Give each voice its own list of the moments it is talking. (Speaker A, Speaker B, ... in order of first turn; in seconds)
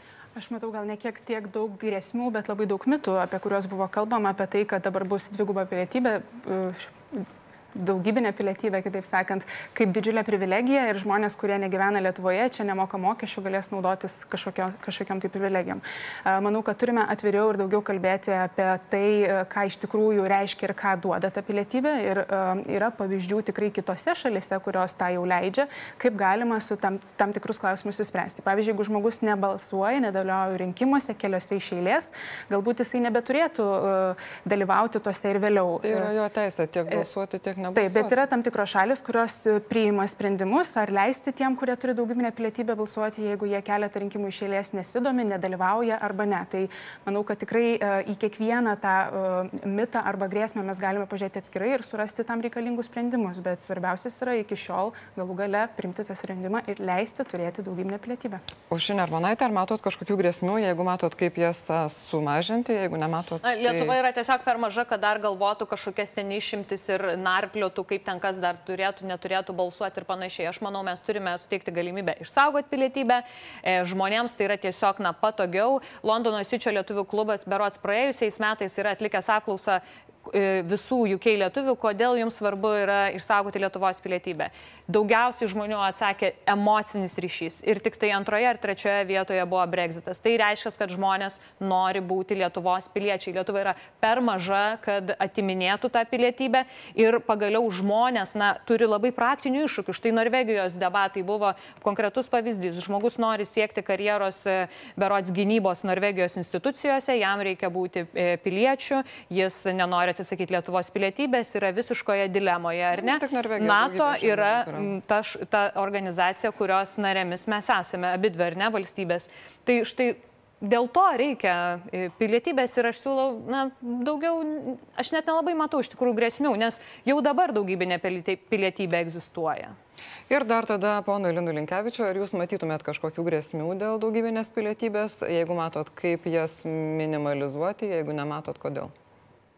Speaker A: 0.3-36.1, 37.7-58.4
Speaker B: 35.8-38.1, 58.7-63.9, 112.9-114.9, 130.3-138.9
Speaker C: 63.4-129.8